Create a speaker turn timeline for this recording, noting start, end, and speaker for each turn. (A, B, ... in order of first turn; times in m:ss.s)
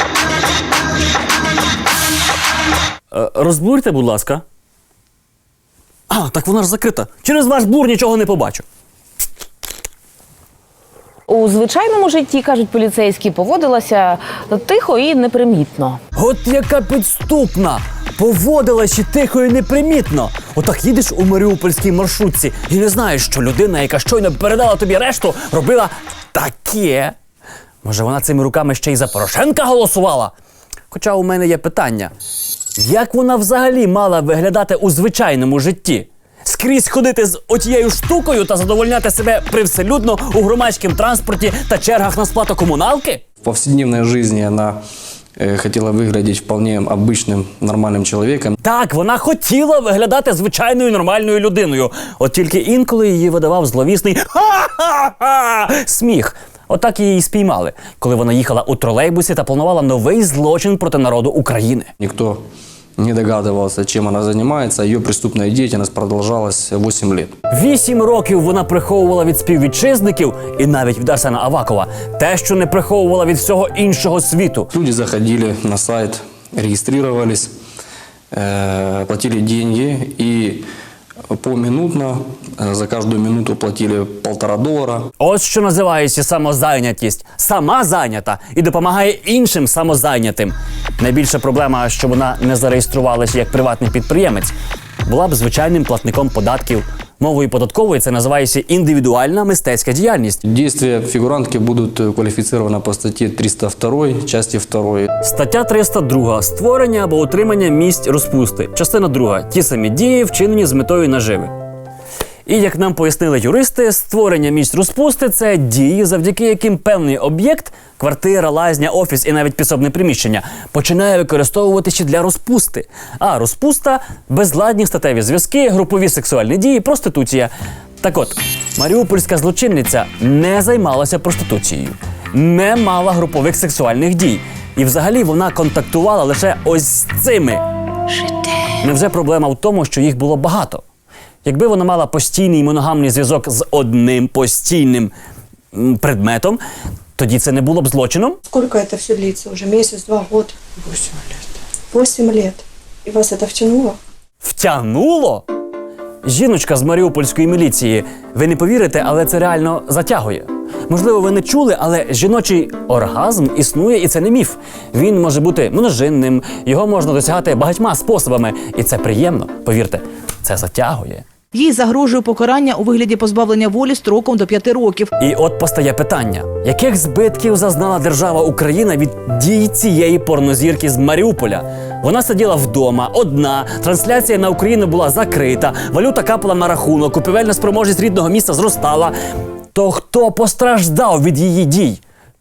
0:03.1-0:04.4 A
0:06.1-0:08.6 A
0:11.3-0:16.0 B
0:16.2-0:27.2 A
0:27.8-0:30.3 A
0:30.9-0:32.1 A
0:32.8-0:43.2 A
0:43.4-0:44.8 C
0:45.4-0:48.6 C
0:48.6-1:01.9 A
1:02.0-1:02.4 C
1:03.0-1:07.3 C
1:07.5-1:14.7 A
1:14.7-1:17.5 C
1:18.3-1:20.7 C
1:21.3-1:25.1 C
1:25.2-1:34.5 A
1:35.0-1:40.4 A
1:40.4-1:45.1 C
1:45.2-1:51.5 A
1:52.5-2:17.6 A
2:18.8-2:20.8 A
2:21.4-2:25.1 A
2:25.7-2:26.6 A
2:27.2-2:28.4 A
2:28.5-2:31.3 D
2:31.9-2:34.0 D
2:34.4-2:35.4 A
2:36.2-2:51.2 A
2:51.5-2:55.1 E
2:55.2-3:09.1 A
3:09.7-3:12.0 A